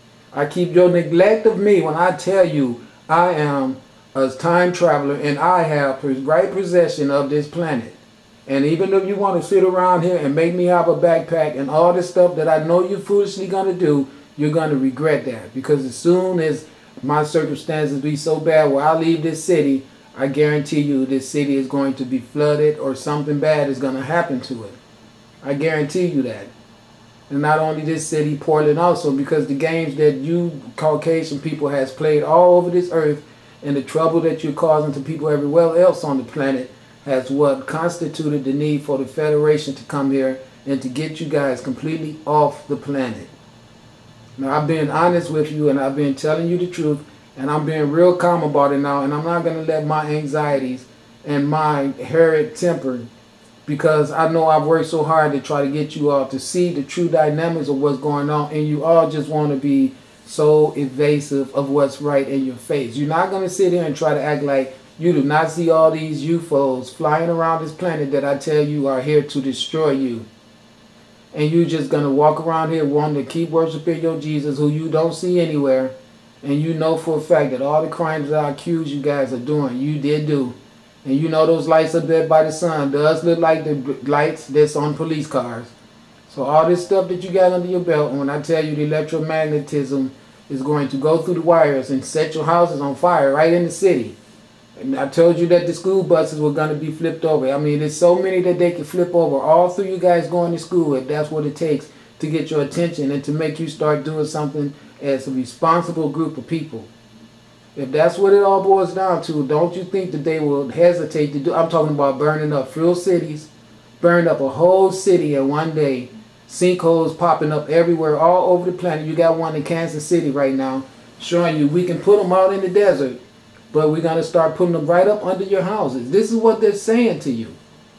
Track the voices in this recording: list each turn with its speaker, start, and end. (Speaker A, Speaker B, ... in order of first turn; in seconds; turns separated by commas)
Speaker A: 0.3-24.8, Speaker A: 25.4-26.5, Speaker A: 27.3-43.3, Speaker A: 44.4-53.1, Speaker A: 53.7-70.3, Speaker A: 71.3-85.7, Speaker A: 86.3-94.2, Speaker A: 94.8-106.9, Speaker A: 107.8-123.2, Speaker A: 123.7-127.6